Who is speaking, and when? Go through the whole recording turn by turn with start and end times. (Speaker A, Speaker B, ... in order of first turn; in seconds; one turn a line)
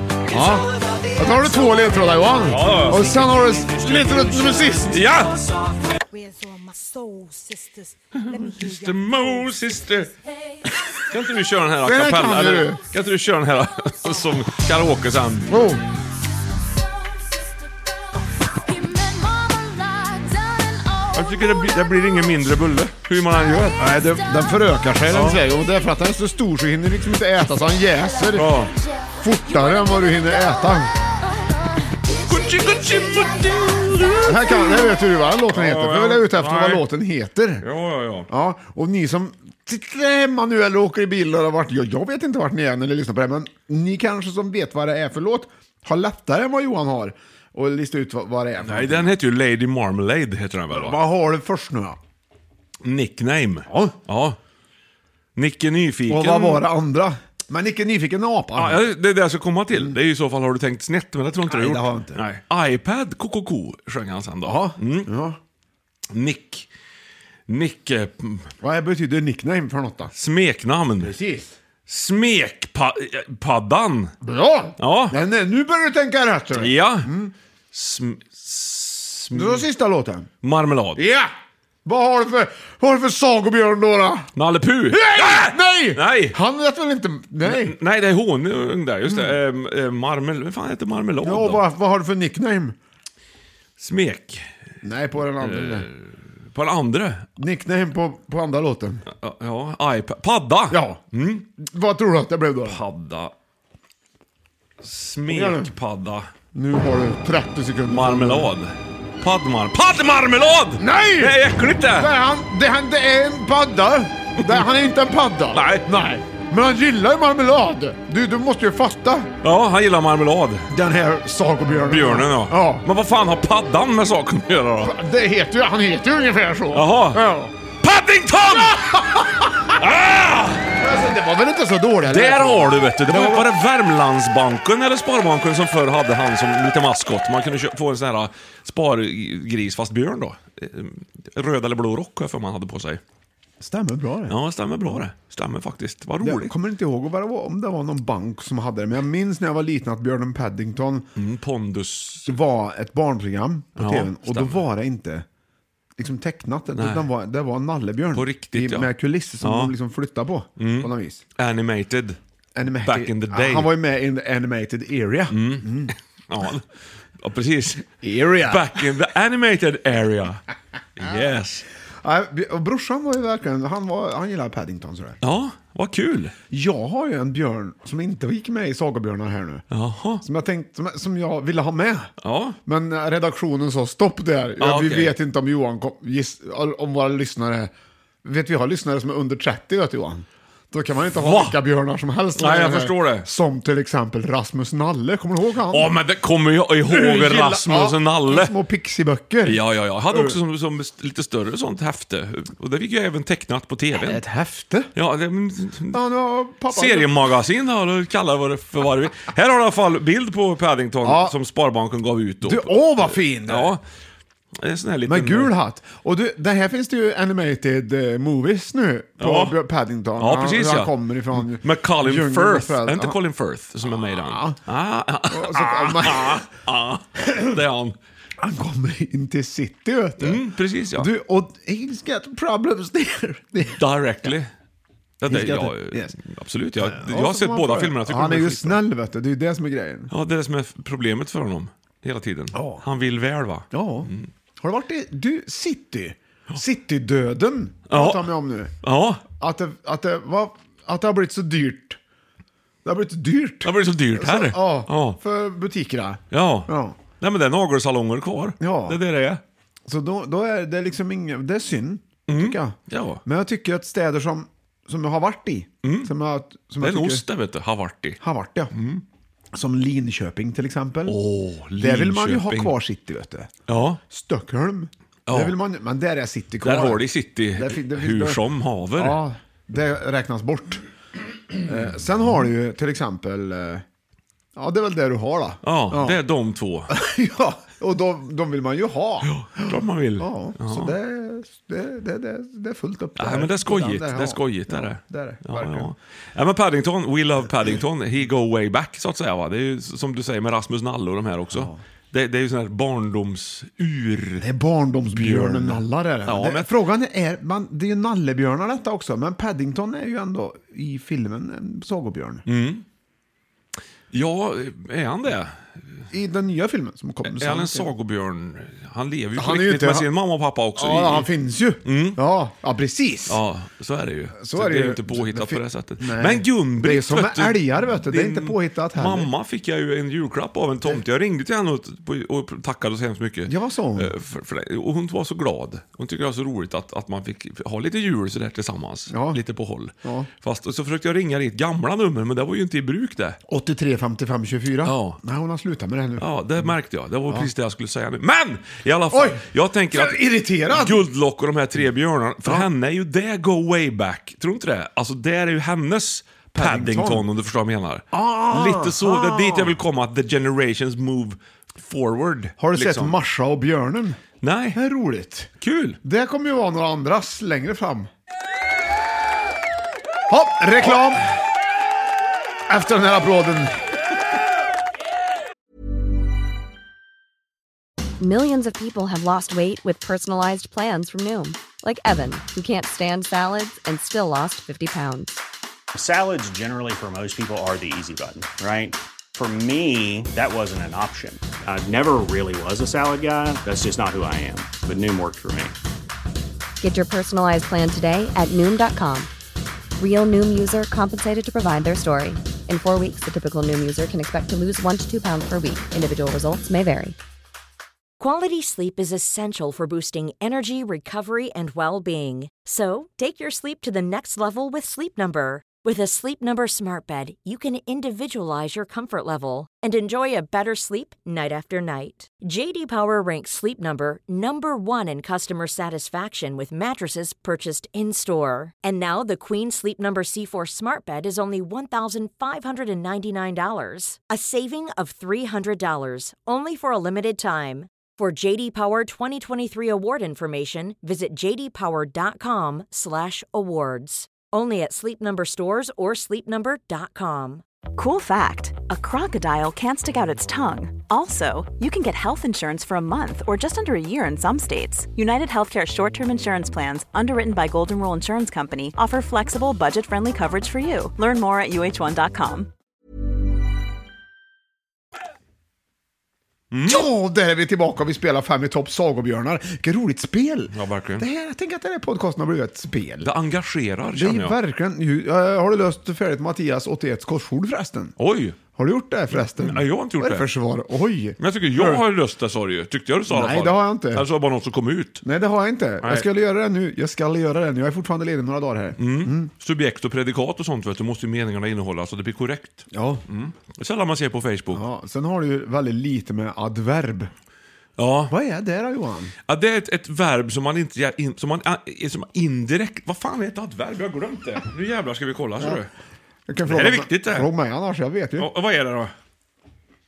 Speaker A: 0.3-5.0
Speaker B: 2.4-5.5
Speaker C: 6.2-7.6
Speaker B: 8.1-10.1
Speaker C: 10.2-10.7
Speaker B: 11.1-15.7
Speaker A: 11.8-12.8
Speaker A: 15.5-15.8
Speaker C: 17.0-22.0
Speaker B: 21.1-23.8
Speaker C: 23.6-24.8
Speaker A: 23.8-28.6
Speaker B: 25.1-25.4
Speaker B: 28.3-28.7
Speaker C: 28.6-34.8
Speaker A: 29.2-30.9
Speaker B: 32.2-34.8
Speaker A: 34.2-37.6
Speaker B: 35.5-36.8
Speaker B: 37.6-38.3
Speaker A: 38.3-49.1
Speaker B: 48.6-51.0
Speaker A: 50.7-52.0
Speaker B: 52.8-54.4
Speaker A: 53.7-54.0
Speaker B: 55.3-56.6
Speaker A: 56.1-58.8
Speaker B: 58.5-65.1
Speaker A: 61.5-62.2
Speaker A: 64.4-65.4
Speaker B: 66.1-66.7
Speaker B: 67.5-68.5
Speaker A: 68.6-70.1
Speaker B: 70.1-71.1
Speaker A: 71.0-71.5
Speaker B: 71.9-74.1
Speaker A: 74.2-77.3
Speaker B: 74.8-75.2
Speaker B: 76.5-77.1
Speaker B: 77.7-79.7
Speaker A: 79.3-80.3
Speaker B: 80.4-81.0
Speaker A: 81.0-81.3
Speaker A: 81.8-84.3
Speaker B: 84.3-86.4
Speaker A: 84.9-87.7
Speaker B: 87.4-91.6
Speaker A: 91.2-92.7
Speaker B: 93.8-94.5
Speaker A: 94.8-95.9
Speaker B: 95.4-97.3
Speaker A: 97.4-99.0
Speaker B: 99.1-101.5
Speaker A: 100.7-101.0
Speaker A: 101.6-102.8
Speaker B: 102.6-103.3
Speaker B: 104.8-106.3
Speaker A: 105.3-105.7
Speaker A: 106.5-108.5
Speaker B: 107.9-112.1
Speaker A: 110.8-119.3
Speaker B: 114.4-114.7
Speaker B: 115.5-115.9
Speaker B: 119.4-120.7
Speaker A: 120.7-122.8
Speaker B: 121.8-124.9
Speaker A: 124.8-127.5
Speaker B: 126.7-127.2
Speaker B: 127.8-129.0
Speaker A: 128.7-129.8
Speaker B: 129.8-130.7
Speaker A: 130.8-133.5
Speaker B: 132.0-143.0
Speaker A: 143.6-144.4
Speaker B: 144.3-146.5
Speaker A: 146.2-151.1
Speaker B: 151.2-152.4
Speaker A: 152.2-155.2
Speaker B: 153.8-154.7
Speaker A: 156.0-161.2
Speaker B: 156.7-157.1
Speaker B: 158.1-159.7
Speaker B: 160.6-162.2
Speaker A: 162.5-165.9
Speaker B: 162.8-163.7
Speaker B: 165.3-170.4
Speaker A: 168.0-168.8
Speaker B: 170.9-171.6
Speaker A: 172.0-175.2
Speaker B: 175.2-176.3
Speaker A: 176.5-179.6
Speaker B: 179.7-180.2
Speaker A: 180.2-182.1
Speaker B: 182.2-182.6
Speaker A: 182.6-187.7
Speaker B: 184.6-185.1
Speaker A: 188.2-195.9
Speaker B: 191.2-191.6
Speaker B: 192.3-193.3
Speaker B: 195.7-198.5
Speaker A: 196.8-200.4
Speaker B: 199.4-204.2
Speaker A: 203.9-204.9
Speaker B: 204.9-206.0
Speaker A: 205.9-207.1
Speaker B: 206.7-213.8
Speaker A: 211.0-211.3
Speaker A: 212.4-213.7
Speaker B: 214.6-215.5
Speaker A: 215.1-223.2
Speaker B: 219.2-219.6
Speaker B: 220.2-228.0
Speaker A: 224.1-224.6
Speaker A: 225.3-226.5
Speaker A: 228.4-234.3
Speaker B: 230.2-231.1
Speaker B: 233.8-234.5
Speaker B: 235.2-238.8
Speaker A: 235.3-236.1
Speaker A: 236.8-240.1
Speaker B: 240.1-244.3
Speaker A: 242.5-242.8
Speaker A: 243.7-248.7
Speaker B: 247.9-249.2
Speaker A: 249.4-252.0
Speaker A: 252.8-257.0
Speaker B: 253.6-255.2
Speaker B: 256.3-259.4
Speaker A: 258.6-259.0
Speaker A: 259.9-267.2
Speaker B: 262.3-263.2
Speaker B: 265.8-266.1
Speaker B: 266.8-268.2
Speaker A: 268.2-268.7
Speaker B: 268.7-269.0
Speaker A: 269.5-271.2
Speaker B: 271.0-272.8
Speaker A: 271.8-273.5
Speaker B: 273.7-274.0
Speaker A: 274.1-278.4
Speaker B: 275.3-275.6
Speaker B: 276.6-279.2
Speaker A: 278.9-280.8
Speaker A: 281.6-283.8
Speaker A: 284.6-286.2
Speaker B: 285.6-286.9
Speaker A: 286.9-295.9
Speaker B: 289.2-290.9
Speaker B: 293.2-304.4
Speaker A: 301.5-301.8
Speaker A: 304.4-312.4
Speaker B: 305.1-306.7
Speaker B: 312.4-312.8
Speaker B: 314.1-315.7
Speaker A: 316.1-317.9
Speaker B: 317.2-321.3
Speaker A: 319.4-320.1
Speaker A: 320.8-323.4
Speaker B: 321.8-322.2
Speaker B: 323.3-343.4
Speaker A: 324.4-329.3
Speaker A: 333.5-334.1
Speaker A: 339.1-339.4
Speaker A: 340.0-340.3
Speaker A: 343.5-346.2
Speaker B: 344.8-345.2
Speaker B: 346.2-363.2
Speaker A: 349.1-351.0
Speaker A: 356.5-357.2
Speaker A: 358.1-359.8
Speaker A: 362.6-364.2
Speaker B: 364.4-364.8
Speaker A: 364.7-365.5
Speaker B: 365.6-366.0
Speaker A: 366.0-368.1
Speaker A: 370.3-371.3
Speaker A: 372.7-373.8
Speaker D: 378.2-385.4
Speaker E: 385.9-395.7
Speaker D: 396.8-399.3
Speaker D: 400.0-407.1
Speaker F: 408.2-447.6
Speaker G: 447.9-462.7
Speaker B: 466.7-467.1
Speaker A: 466.8-473.3
Speaker B: 470.7-471.2
Speaker B: 473.2-474.6
Speaker A: 474.1-478.1
Speaker B: 478.2-478.6
Speaker A: 478.7-482.0
Speaker B: 479.3-480.5
Speaker B: 481.4-485.2
Speaker A: 483.3-484.2
Speaker A: 485.2-489.5
Speaker B: 486.0-486.3
Speaker B: 489.0-494.8
Speaker A: 492.9-493.2
Speaker A: 494.7-497.3
Speaker B: 498.0-498.3
Speaker A: 498.3-499.3
Speaker B: 499.4-505.9
Speaker A: 506.5-508.5
Speaker B: 506.6-507.5
Speaker B: 508.4-509.1